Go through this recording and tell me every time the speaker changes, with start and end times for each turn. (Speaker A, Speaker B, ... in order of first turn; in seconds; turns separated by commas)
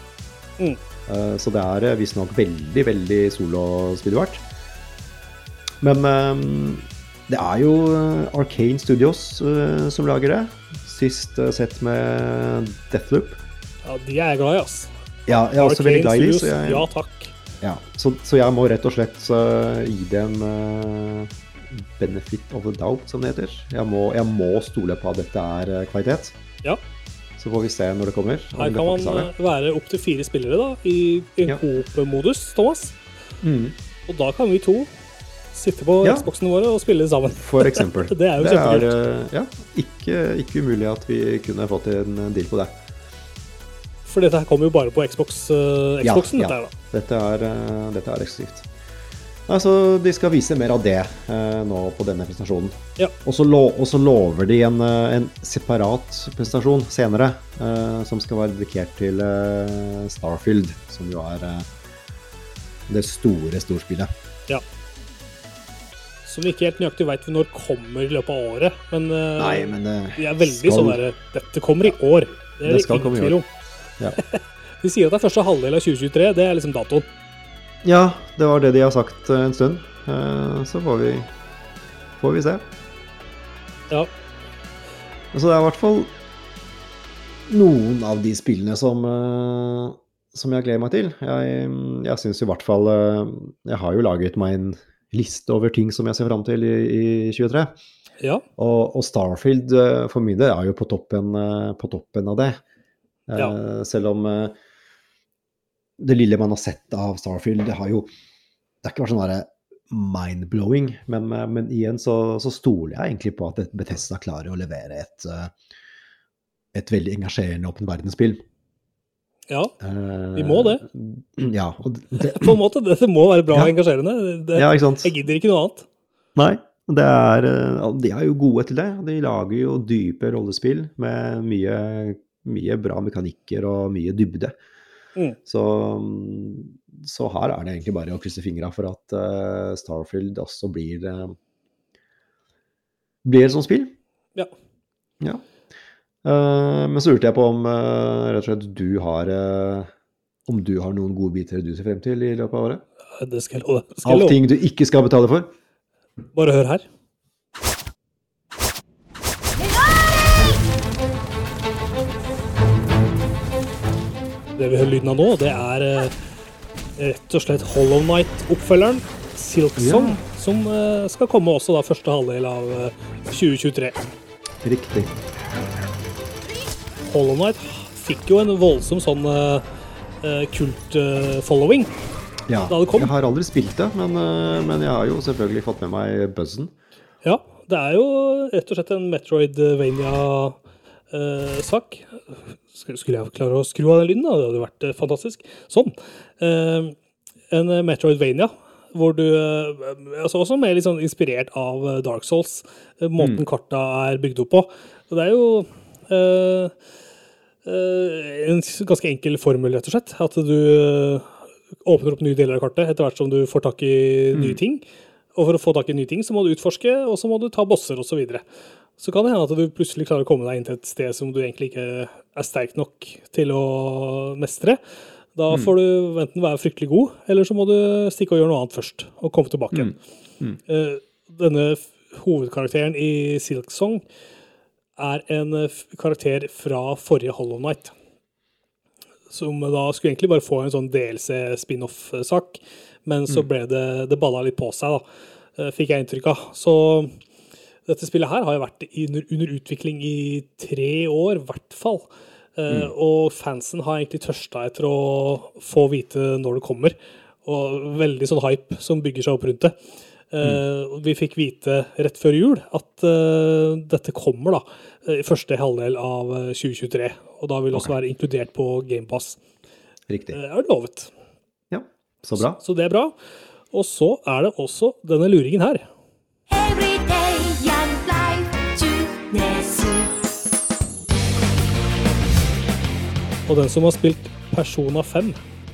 Speaker A: 1.1-4.4, Speaker A: 5.8-13.4, Speaker B: 13.8-17.4, Speaker A: 15.3-16.9, Speaker A: 17.6-26.4, Speaker A: 27.4-29.3, Speaker B: 28.6-33.0, Speaker A: 33.4-33.8, Speaker B: 34.1-34.9, Speaker B: 35.5-39.0, Speaker A: 36.0-36.3, Speaker A: 37.4-42.8, Speaker B: 44.1-46.7, Speaker A: 46.0-48.7, Speaker A: 49.5-61.7, Speaker A: 62.9-64.1, Speaker B: 66.2-73.5, Speaker A: 69.4-71.0, Speaker A: 72.7-73.4, Speaker B: 74.2-77.1, Speaker A: 77.8-81.3, Speaker A: 82.2-82.6, Speaker A: 85.3-86.1, Speaker A: 87.5-97.7, Speaker A: 98.6-102.6, Speaker A: 103.3-104.5, Speaker A: 106.0-108.1, Speaker A: 108.8-115.5, Speaker A: 116.7-118.4, Speaker B: 119.5-119.8, Speaker A: 119.8-122.6, Speaker B: 120.3-120.8, Speaker B: 122.2-125.9, Speaker A: 124.6-125.1, Speaker A: 126.4-134.6, Speaker A: 135.5-141.4, Speaker A: 143.2-143.9, Speaker A: 146.2-149.9, Speaker A: 150.5-152.8, Speaker B: 153.2-154.4, Speaker A: 154.0-155.5, Speaker B: 156.3-156.8, Speaker B: 164.6-166.2, Speaker B: 167.0-174.0, Speaker A: 169.8-170.2, Speaker A: 174.6-175.1, Speaker B: 177.1-179.7, Speaker B: 180.2-181.9, Speaker A: 182.5-186.7, Speaker B: 182.7-183.1, Speaker B: 187.2-190.6, Speaker B: 191.1-197.0, Speaker B: 197.5-206.8, Speaker A: 203.2-203.4, Speaker B: 207.7-214.8, Speaker A: 214.3-214.6, Speaker B: 215.3-218.4, Speaker B: 219.0-224.8, Speaker B: 225.4-230.0, Speaker A: 229.7-230.6, Speaker B: 230.7-234.0, Speaker B: 235.0-237.9, Speaker B: 239.3-245.0, Speaker B: 245.6-247.2, Speaker B: 247.9-259.8, Speaker B: 260.3-269.4, Speaker A: 270.1-270.4, Speaker B: 270.3-271.1, Speaker A: 271.7-272.6, Speaker B: 272.4-273.1, Speaker B: 273.7-275.8, Speaker C: 276.5-280.2, Speaker B: 283.5-285.4